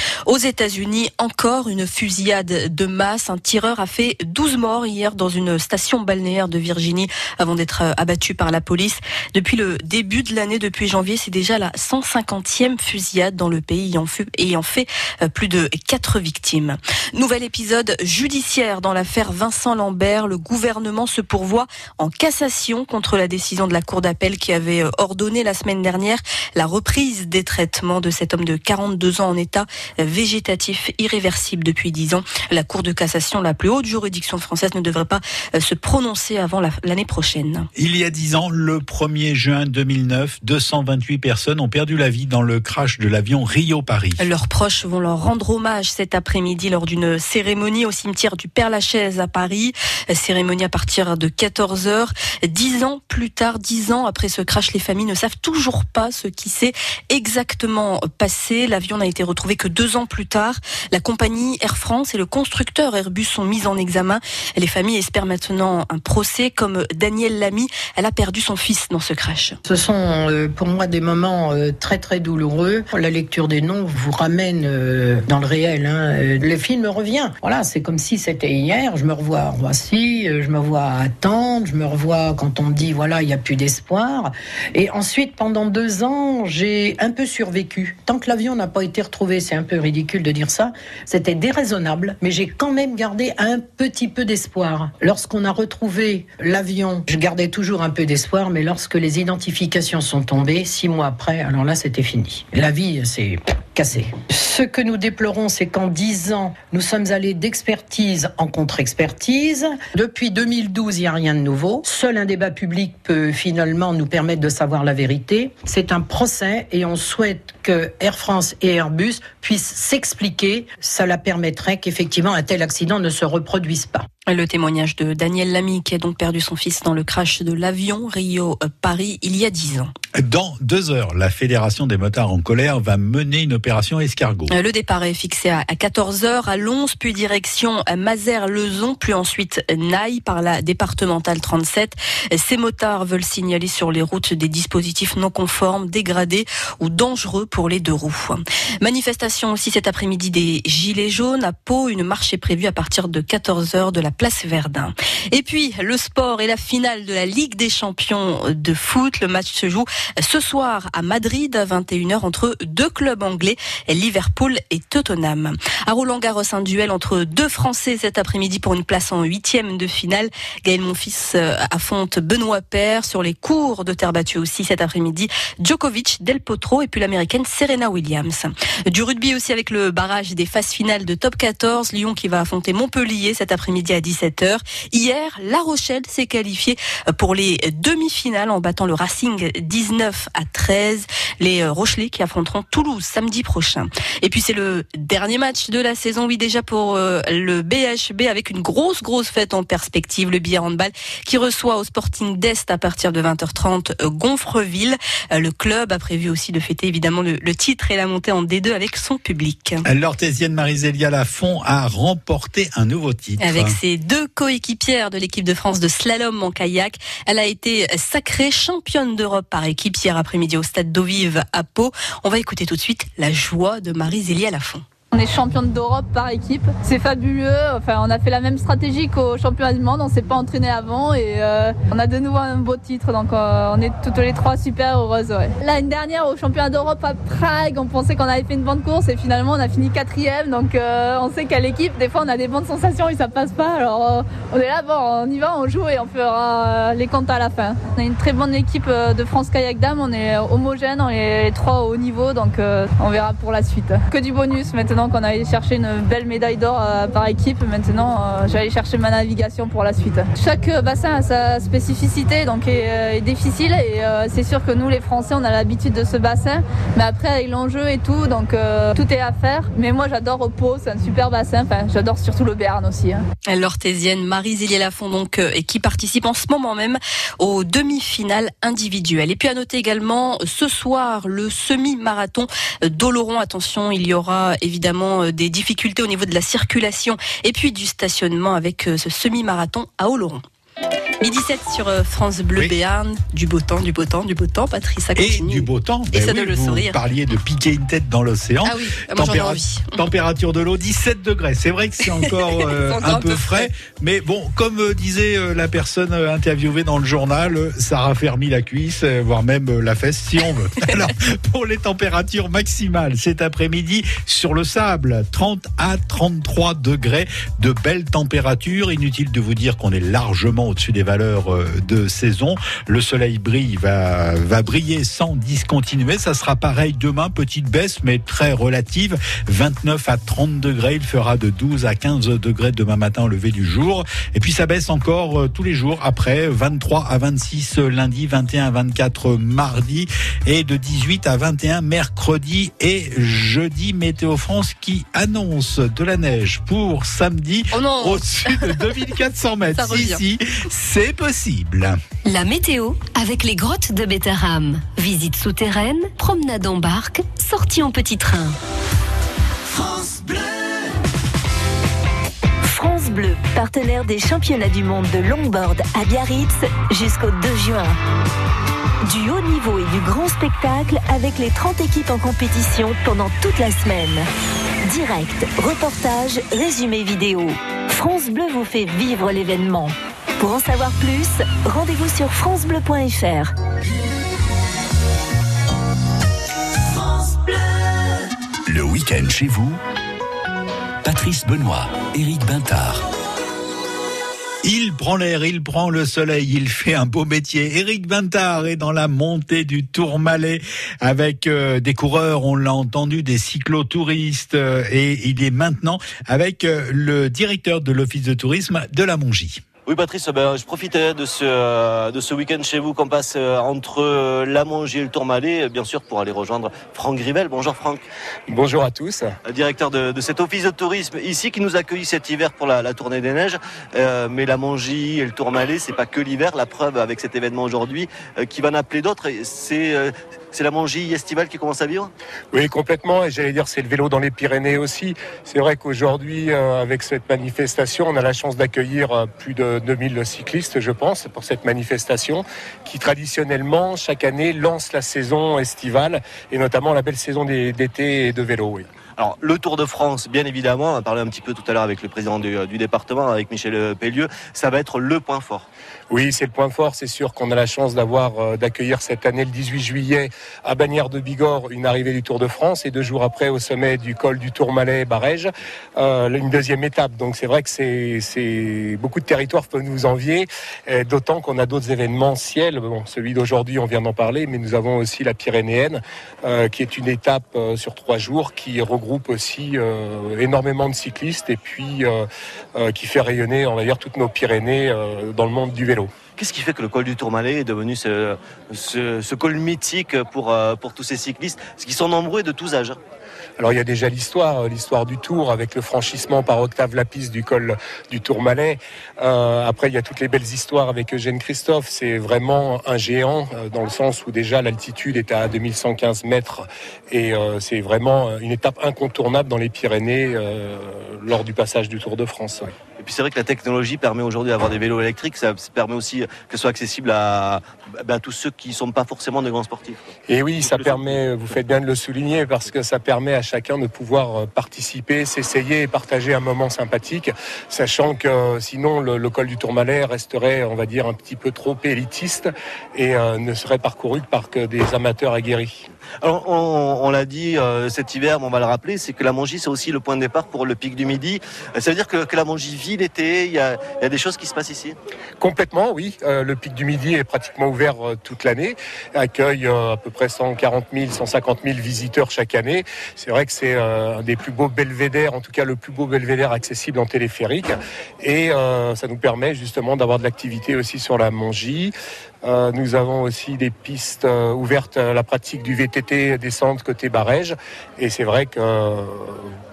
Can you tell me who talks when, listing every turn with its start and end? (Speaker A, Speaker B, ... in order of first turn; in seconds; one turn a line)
Speaker A: 0.3-37.7
Speaker B: 37.8-44.2
Speaker A: 44.2-69.6
Speaker C: 69.7-124.1
Speaker A: 124.3-129.9
Speaker B: 130.2-134.5
Speaker A: 134.5-209.8
Speaker B: 209.9-213.8
Speaker A: 213.4-224.8
Speaker D: 225.1-273.2
Speaker A: 273.5-290.4
Speaker A: 291.2-297.0
Speaker B: 295.2-352.0
Speaker A: 298.6-300.0
Speaker A: 302.0-303.7
Speaker A: 347.7-349.1
Speaker A: 349.7-350.2
Speaker E: 352.7-358.5
Speaker E: 362.6-368.0
Speaker E: 369.0-374.3
Speaker E: 374.9-383.5
Speaker F: 388.7-389.8
Speaker F: 391.0-393.1
Speaker B: 394.6-409.6
Speaker G: 409.9-418.1
Speaker H: 418.5-419.4
Speaker G: 419.4-432.1
Speaker H: 432.5-448.9
Speaker G: 449.2-455.7
Speaker H: 456.1-486.1
Speaker G: 486.4-493.0
Speaker H: 493.6-512.7
Speaker G: 513.0-520.1
Speaker H: 520.3-535.8
Speaker G: 520.6-521.2
Speaker G: 536.2-545.0
Speaker H: 545.4-569.5